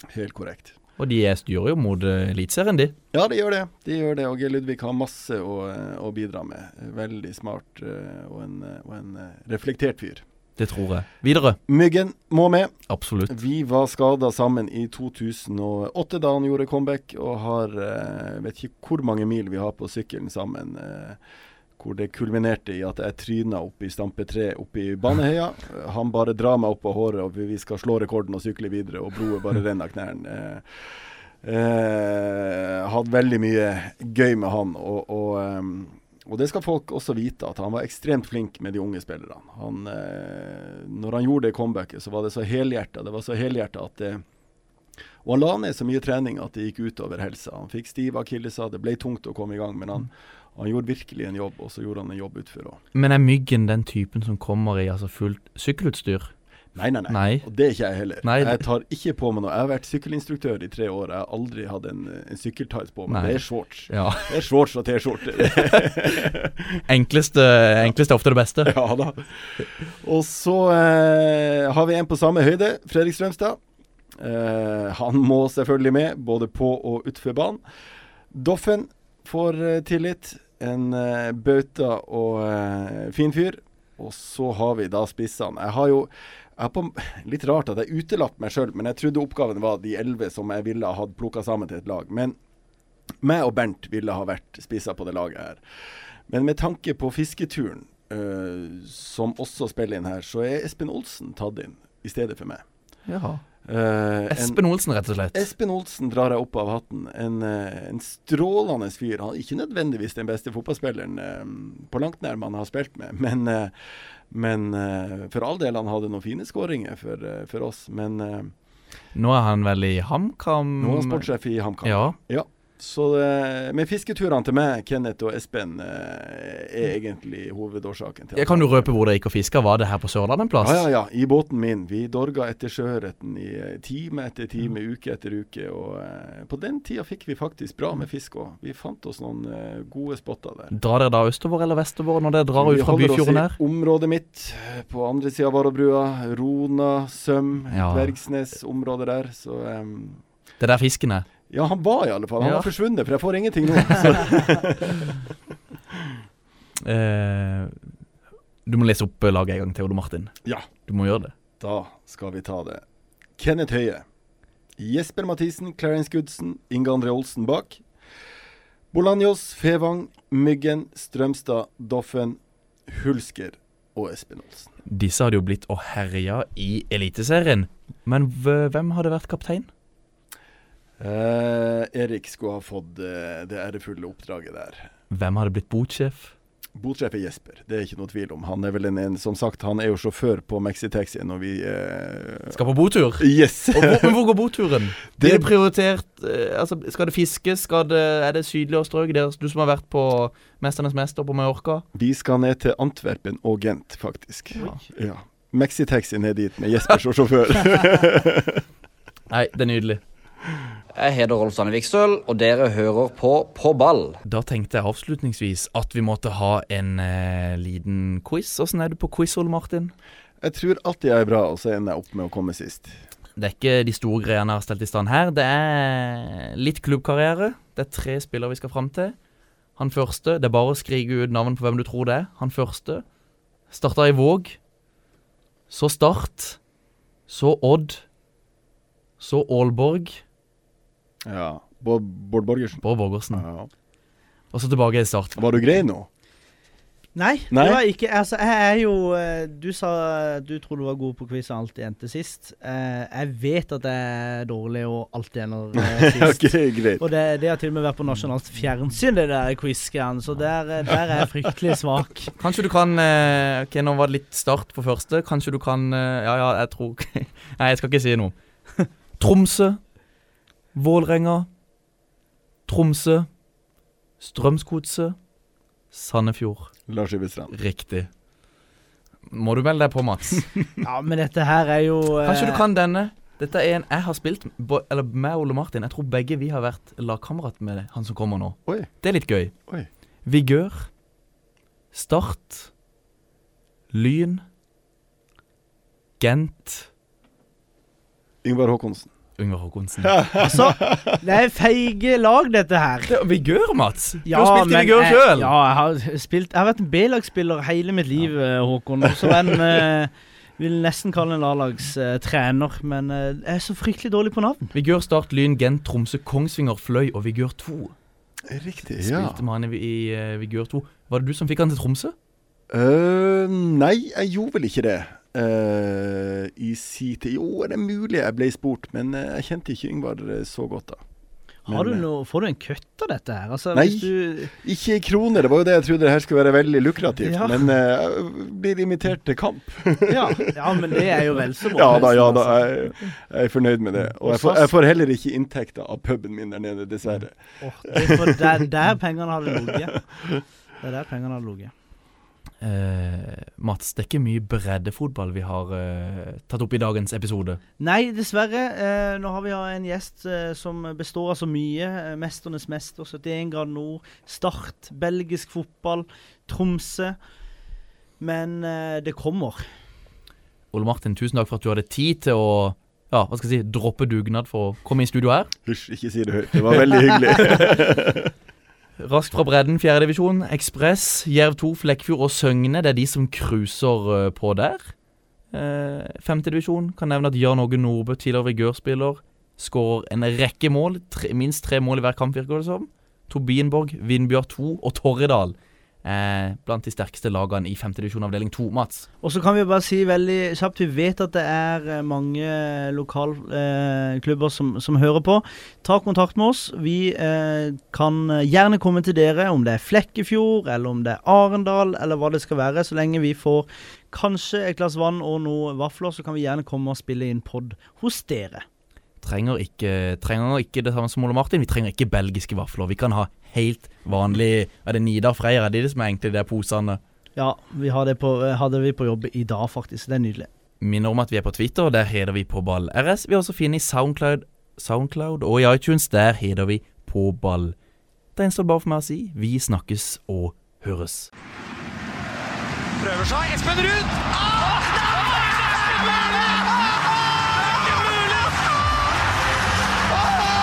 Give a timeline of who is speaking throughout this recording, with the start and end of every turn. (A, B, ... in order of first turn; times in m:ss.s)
0:00.1-0:00.8 A
0:01.0-0:02.9 B
0:03.1-0:10.2 A
0:10.6-0:11.6 B
0:11.7-0:21.2 A
0:12.9-0:13.4 B
0:21.8-0:44.2 A
0:45.2-0:52.8 A
0:52.9-0:56.3 B
0:56.7-1:06.8 A
0:57.1-0:57.5 B
0:58.2-0:58.6 B
1:03.1-1:04.4 B
1:05.5-1:05.9 B
1:06.9-1:08.7 B
1:08.6-1:13.6 A
1:14.2-1:17.6 A
1:18.3-1:32.4 A
1:33.2-1:42.6 A
1:43.1-1:43.4 B
1:43.6-1:44.6 A
1:44.3-1:45.5 B
1:45.3-1:53.7 A
1:54.3-1:58.5 A
1:59.1-2:01.2 B
2:00.8-2:08.9 A
2:01.8-2:02.2 B
2:08.4-2:10.8 B
2:10.6-2:20.7 A
2:20.7-2:23.6 B
2:22.5-2:30.2 A
2:27.7-2:28.1 B
2:30.6-2:31.3 B
2:31.5-2:35.1 A
2:32.4-2:32.7 B
2:36.8-2:37.8 B
2:38.6-2:41.3 B
2:41.6-2:42.8 A
2:43.4-2:44.0 A
2:44.8-2:47.8 A
2:48.9-2:54.7 A
2:54.8-2:59.7 B
3:01.0-3:04.9 A
3:05.1-3:06.3 B
3:06.8-3:12.6 A
3:12.5-3:21.8 B
3:13.2-3:14.2 A
3:15.1-3:15.5 A
3:21.9-3:28.6 A
3:29.3-3:30.0 B
3:30.9-3:34.2 C
3:34.2-3:39.9 B
3:40.4-3:43.0 A
3:43.4-3:49.1 B
3:49.8-3:53.0 B
3:53.7-3:54.6 B
3:55.7-3:56.6 B
3:57.3-3:58.0 B
3:59.2-4:00.2 B
4:01.2-4:03.7 A
4:02.8-4:03.4 B
4:04.5-4:05.4 B
4:05.4-4:06.1 A
4:07.2-4:16.5 D
4:07.5-4:07.8 A
4:15.8-4:17.0 A
4:17.0-4:22.3 D
4:22.4-4:29.8 B
4:30.7-4:31.5 B
4:32.7-4:33.3 B
4:34.2-4:35.2 B
4:35.9-4:36.7 B
4:36.9-4:37.5 A
4:37.5-4:38.1 B
4:39.3-4:40.6 B
4:40.8-4:42.6 D
4:42.2-4:49.6 B
4:48.6-4:48.9 A
4:50.2-4:50.9 B
4:51.9-4:52.7 B
4:53.9-4:54.4 B
4:56.2-4:56.9 B
4:58.4-4:59.1 A
4:59.4-5:00.3 B
5:00.0-5:01.2 A
5:00.4-5:03.1 D
5:03.1-5:05.5 B
5:04.2-5:14.7 D
5:14.7-5:17.9 B
5:18.4-5:19.4 A
5:19.0-5:22.1 B
5:22.7-5:31.0 A
5:31.7-5:34.5 D
5:31.7-5:32.0 A
5:33.7-5:41.0 A
5:37.2-5:37.6 D
5:40.0-5:42.9 D
5:41.7-5:47.4 A
5:44.2-5:44.7 D
5:47.6-5:49.9 D
5:48.0-5:48.3 A
5:50.8-5:51.7 D
5:52.6-5:57.6 B
5:57.8-6:07.2 D
6:08.2-6:09.6 D
6:10.7-6:15.5 B
6:15.6-6:18.3 A
6:19.0-6:24.9 B
6:25.5-6:39.1 B
6:39.2-6:58.6 D
6:59.2-7:07.0 B
7:07.4-7:10.5 D
7:10.8-7:17.7 B
7:18.4-7:21.3 B
7:23.0-7:24.8 E
7:25.6-7:26.0 E
7:27.9-7:28.4 E